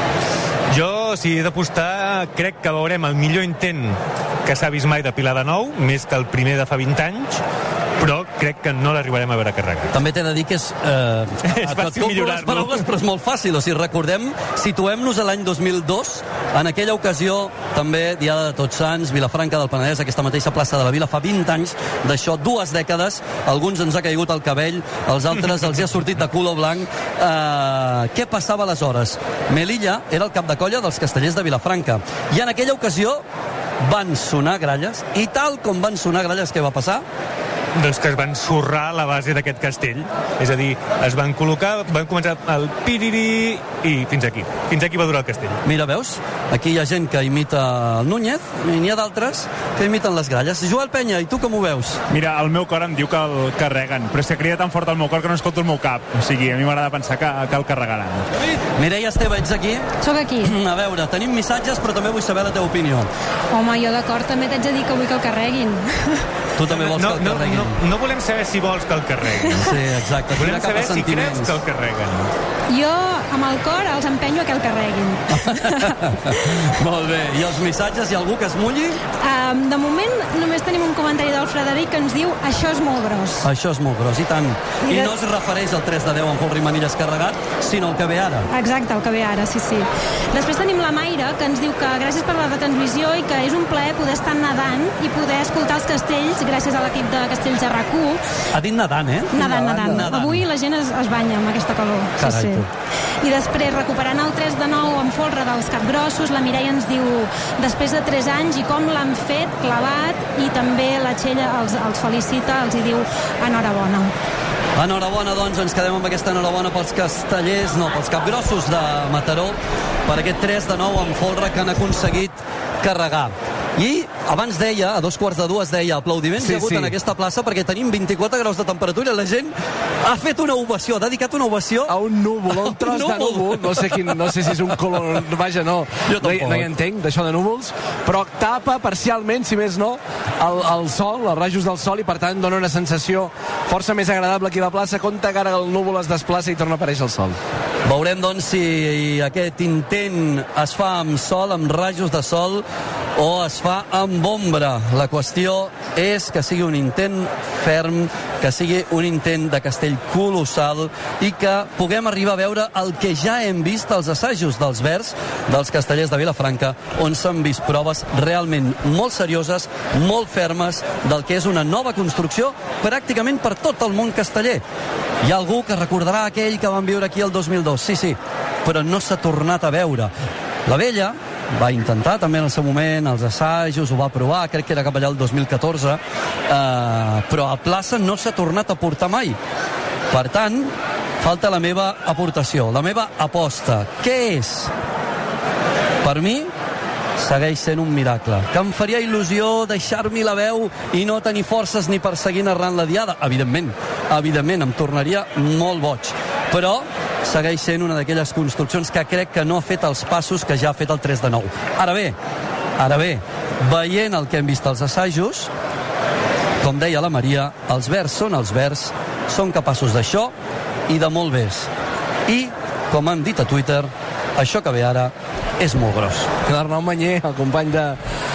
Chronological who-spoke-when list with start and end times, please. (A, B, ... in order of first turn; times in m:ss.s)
0:00.7-0:07.4 A
0:08.0-0:09.9 A
0:09.9-0:33.2 B
0:11.5-0:12.8 A
0:33.8-0:37.0 B
0:37.7-0:45.6 A
0:45.6-0:52.0 B
0:52.1-0:58.2 C
0:58.4-0:59.9 B
1:00.0-1:00.5 D
1:00.4-1:03.1 B
1:03.5-1:06.2 D
1:06.6-1:07.8 B
1:06.7-1:09.7 A
1:09.5-1:11.6 B
1:10.3-1:12.3 A
1:12.7-1:16.0 D
1:15.3-1:19.0 B
1:19.2-1:23.4 D
1:23.4-1:28.5 B
1:24.8-1:25.2 D
1:28.5-1:38.2 D
1:38.5-1:40.4 B
1:39.3-1:42.7 D
1:42.2-1:42.7 B
1:43.2-1:54.1 D
1:54.8-2:11.9 B
2:06.4-2:06.9 E
2:11.9-2:27.4 E
2:12.5-2:13.8 B
2:16.1-2:16.7 B
2:27.8-2:32.6 B
2:33.2-2:54.6 B
2:55.2-3:00.1 B
3:00.6-3:09.4 B
3:10.1-3:14.7 B
3:16.0-3:16.5 B
3:17.2-3:32.2 B
3:32.8-3:35.5 B
3:36.6-3:40.3 B
3:40.9-3:41.7 B
3:42.3-3:46.3 B
3:46.4-3:48.0 E